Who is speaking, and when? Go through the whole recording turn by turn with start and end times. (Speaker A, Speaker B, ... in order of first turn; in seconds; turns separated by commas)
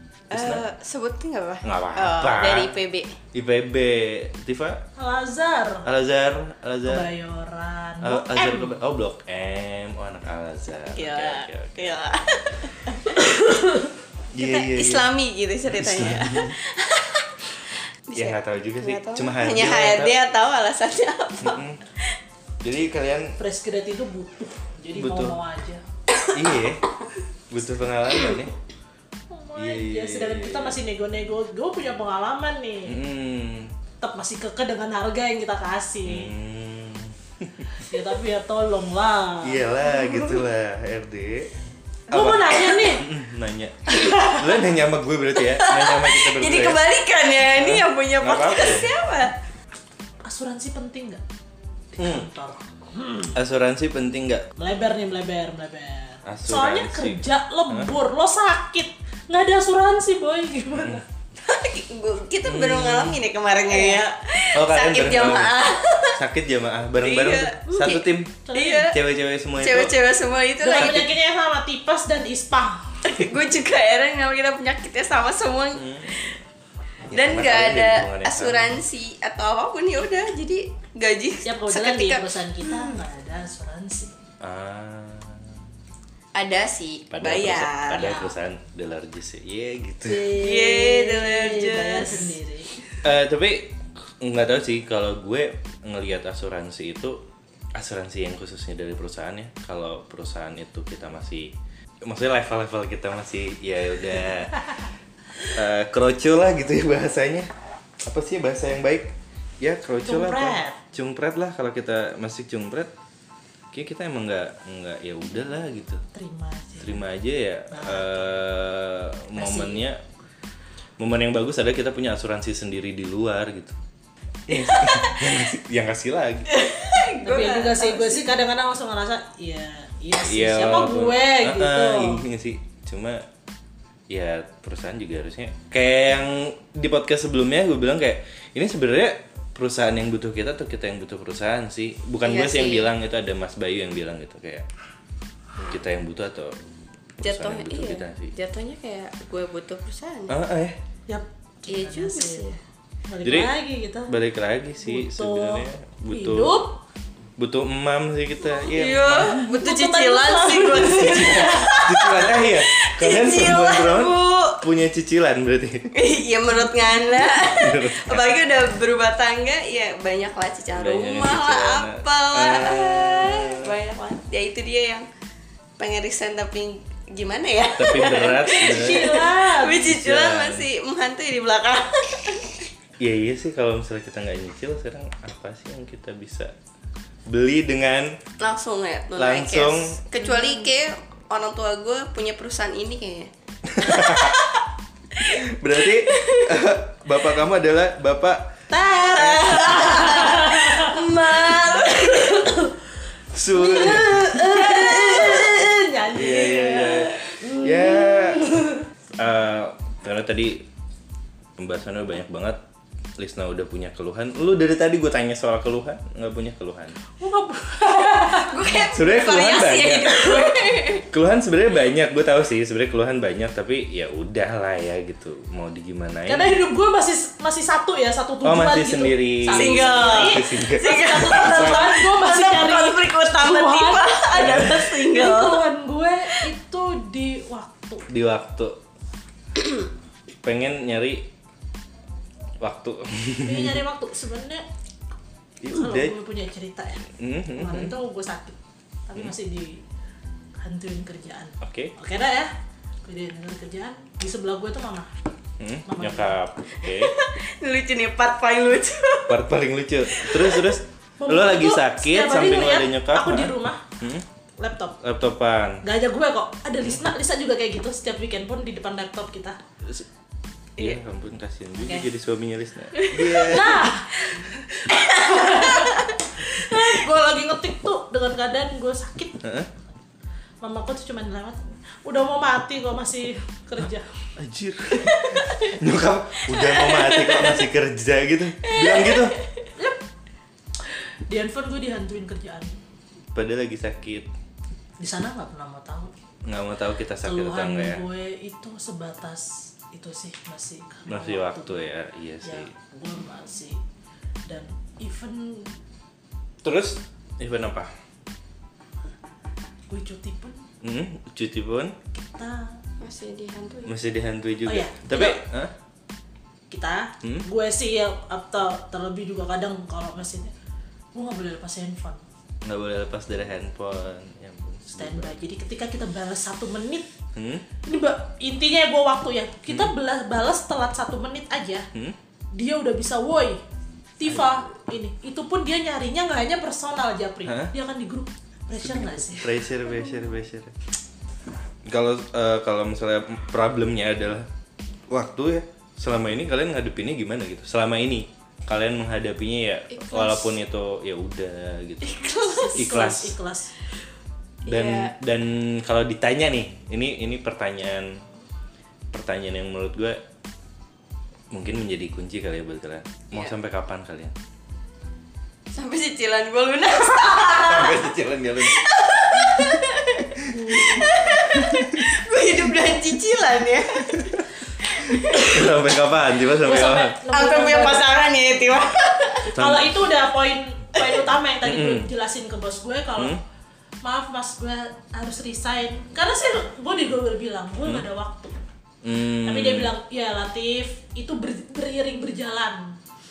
Speaker A: 0.3-3.2, Speaker B: 0.3-0.6, Speaker B: 1.6-2.7, Speaker B: 3.3-4.8, Speaker C: 5.0-5.9, Speaker B: 5.8-7.1, Speaker C: 6.9-8.8, Speaker B: 8.0-11.9, Speaker A: 10.9-13.2, Speaker C: 13.2-13.9, Speaker B: 14.3-15.1, Speaker A: 14.4-17.5, Speaker B: 15.7-16.6, Speaker A: 18.1-22.1, Speaker B: 18.1-20.1, Speaker B: 21.4-21.8, Speaker B: 22.6-23.4, Speaker C: 23.4-25.8, Speaker B: 24.9-25.4, Speaker B: 26.3-26.8, Speaker B: 27.5-28.5, Speaker C: 29.3-33.0, Speaker B: 29.6-30.8, Speaker B: 32.9-33.7, Speaker C: 34.0-36.3, Speaker B: 36.0-37.8, Speaker C: 37.8-40.3, Speaker B: 39.4-41.5, Speaker B: 42.1-46.8, Speaker C: 42.1-43.1, Speaker C: 43.9-44.4, Speaker A: 45.5-49.3, Speaker B: 47.5-48.9, Speaker C: 50.2-51.2, Speaker C: 51.9-53.4, Speaker B: 52.0-52.2, Speaker B: 53.3-54.5, Speaker C: 54.6-61.0, Speaker B: 56.2-57.9, Speaker B: 60.8-61.0, Speaker A: 61.4-66.2, Speaker B: 62.5-63.2, Speaker C: 63.7-64.0, Speaker B: 64.5-65.6, Speaker B: 66.1-68.3, Speaker A: 67.0-69.0, Speaker C: 67.7-68.9, Speaker B: 68.9-69.9, Speaker A: 69.6-71.0, Speaker C: 70.6-73.0, Speaker B: 70.7-71.1, Speaker A: 73.0-76.4, Speaker B: 75.7-76.4, Speaker B: 77.1-78.8, Speaker A: 77.1-82.9, Speaker C: 81.4-84.1, Speaker B: 84.4-85.6, Speaker A: 86.3-88.3, Speaker B: 87.1-90.3, Speaker C: 90.0-92.9, Speaker A: 90.3-92.3, Speaker B: 93.0-104.7, Speaker B: 105.5-107.5, Speaker B: 108.0-112.9, Speaker C: 110.0-110.8, Speaker B: 113.7-116.0, Speaker C: 116.1-117.0, Speaker B: 116.8-120.0, Speaker C: 117.7-118.3, Speaker C: 119.3-119.8, Speaker B: 121.0-123.8, Speaker B: 124.5-126.5, Speaker A: 124.5-125.4, Speaker A: 126.5-128.3, Speaker C: 127.2-132.2, Speaker B: 130.2-133.2, Speaker B: 134.1-144.7, Speaker A: 142.2-142.9, Speaker B: 145.6-146.6, Speaker B: 147.2-148.3, Speaker A: 147.2-150.3, Speaker B: 150.3-150.8, Speaker C: 151.1-154.1, Speaker A: 151.7-152.6, Speaker B: 153.2-153.5, Speaker B: 154.1-156.6, Speaker C: 154.8-156.8, Speaker B: 157.4-159.4, Speaker A: 158.5-164.7, Speaker C: 159.4-161.7, Speaker B: 160.9-165.9, Speaker A: 165.9-175.1, Speaker B: 167.4-168.4, Speaker B: 170.8-173.7, Speaker A: 175.8-182.7, Speaker B: 177.8-179.2, Speaker C: 178.1-179.9, Speaker B: 179.8-180.7, Speaker B: 183.0-186.5, Speaker B: 187.3-188.2, Speaker A: 188.4-193.3, Speaker B: 189.2-190.0, Speaker B: 193.7-194.4, Speaker A: 193.8-196.7, Speaker B: 195.2-198.5, Speaker C: 198.7-202.8, Speaker B: 199.1-200.2, Speaker A: 199.1-202.6, Speaker B: 203.3-204.5, Speaker C: 203.5-208.9, Speaker A: 203.9-205.5, Speaker B: 206.1-208.4, Speaker A: 206.4-207.2, Speaker B: 209.2-210.7, Speaker B: 211.6-212.6, Speaker B: 213.2-217.0, Speaker C: 217.2-218.8, Speaker A: 218.3-221.1, Speaker B: 218.9-220.5, Speaker B: 221.1-226.5, Speaker C: 226.3-238.1, Speaker B: 228.4-231.9, Speaker A: 229.5-235.6, Speaker B: 234.3-234.9, Speaker B: 238.1-238.8, Speaker A: 239.6-239.9, Speaker B: 240.4-241.3, Speaker B: 242.6-243.8, Speaker C: 243.4-244.6, Speaker B: 245.6-246.2, Speaker C: 245.7-249.8, Speaker B: 247.2-247.9, Speaker C: 250.6-252.5, Speaker B: 251.6-251.9, Speaker C: 253.1-255.1, Speaker B: 255.6-257.1, Speaker C: 255.9-256.4, Speaker A: 256.8-259.4, Speaker B: 259.3-264.2, Speaker A: 260.1-260.8, Speaker C: 261.2-263.9, Speaker C: 264.6-264.9, Speaker B: 265.0-265.8, Speaker C: 265.8-269.6, Speaker B: 270.8-273.9, Speaker A: 272.9-273.6, Speaker C: 273.3-279.4, Speaker A: 275.1-276.1, Speaker B: 279.4-279.7, Speaker C: 280.6-284.1, Speaker B: 284.4-289.3, Speaker A: 286.5-287.7, Speaker A: 288.6-289.7, Speaker C: 290.8-292.8, Speaker B: 293.3-294.3, Speaker C: 295.0-296.1, Speaker B: 296.4-298.0, Speaker C: 297.2-301.9, Speaker B: 301.1-302.7, Speaker C: 302.4-303.8, Speaker C: 304.5-305.7, Speaker B: 306.6-307.9, Speaker C: 309.9-310.6, Speaker B: 310.8-311.9, Speaker C: 312.1-312.8, Speaker A: 313.0-313.9, Speaker B: 313.9-315.7, Speaker C: 314.6-315.4, Speaker C: 316.7-320.5, Speaker C: 321.1-322.2, Speaker B: 322.6-325.4, Speaker C: 324.9-327.1, Speaker B: 327.3-327.6, Speaker C: 327.8-331.9, Speaker C: 332.5-333.6, Speaker C: 334.2-339.6, Speaker B: 334.3-334.6, Speaker B: 337.4-337.7, Speaker B: 338.8-340.7, Speaker B: 341.9-344.5, Speaker B: 345.1-353.4, Speaker A: 349.9-350.6, Speaker A: 352.0-352.9, Speaker C: 352.8-353.7, Speaker A: 354.6-355.1, Speaker B: 354.7-358.2, Speaker B: 359.1-360.2, Speaker B: 361.5-364.3, Speaker A: 365.7-374.3, Speaker B: 367.2-369.7, Speaker B: 370.5-372.0, Speaker C: 370.5-371.1, Speaker B: 374.1-374.4, Speaker A: 374.8-375.7, Speaker B: 375.1-377.1, Speaker C: 376.6-378.0, Speaker A: 377.3-379.5, Speaker B: 379.5-379.9, Speaker C: 379.6-383.4, Speaker B: 381.6-382.1, Speaker C: 384.0-388.5, Speaker B: 389.0-389.9, Speaker C: 389.4-392.9